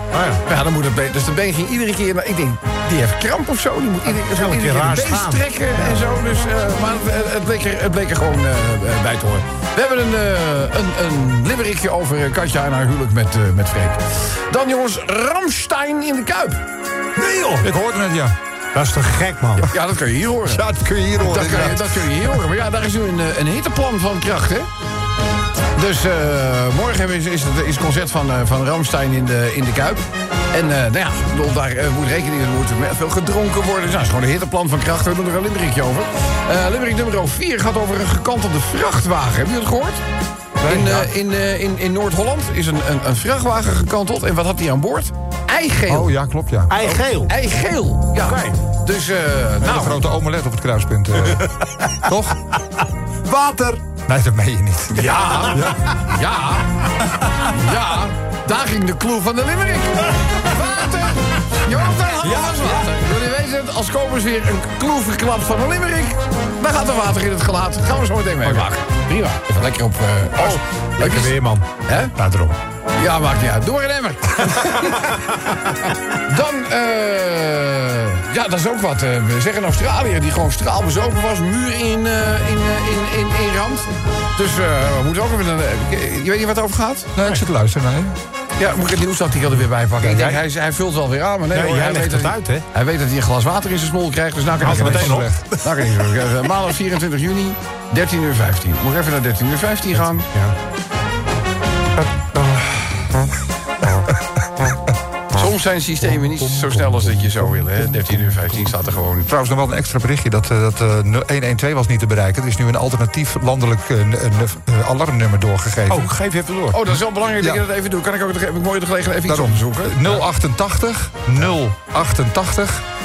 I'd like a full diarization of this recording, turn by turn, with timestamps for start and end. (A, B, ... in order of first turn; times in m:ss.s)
0:00.1-0:00.4 A
0:00.4-0:16.6 B
0:04.1-0:05.5 A
0:17.2-0:17.7 A
0:17.6-0:18.3 C
0:18.7-0:19.7 A
0:19.7-0:20.6 B
0:20.5-0:22.2 C
0:21.2-0:24.7 B
0:25.8-0:30.0 B
0:30.5-0:40.0 B
0:40.6-0:46.2 B
0:40.6-0:41.0 A
0:45.9-0:46.8 C
0:46.7-0:47.3 A
0:46.9-0:50.0 B
0:48.2-0:48.6 A
0:49.7-0:51.5 C
0:51.2-0:52.1 A
0:52.0-0:52.4 C
0:53.3-0:53.8 A
0:54.0-0:55.8 C
0:54.9-0:56.7 B
0:55.5-0:55.8 A
0:57.4-1:12.1 B
1:02.2-1:03.0 A
1:08.4-1:08.7 A
1:10.4-1:12.6 A
1:13.0-1:15.1 B
1:16.2-1:27.1 B
1:27.2-1:28.2 C
1:28.6-1:40.3 B
1:30.0-1:30.4 A
1:31.5-1:32.6 A
1:34.6-1:35.4 A
1:34.6-1:35.5 C
1:40.3-1:40.6 A
1:42.4-1:42.8 C
1:45.4-1:49.3 B
1:46.9-1:47.4 C
1:49.3-1:56.1 C
1:55.9-1:56.8 A
1:56.7-2:00.2 B
1:59.3-2:02.8 C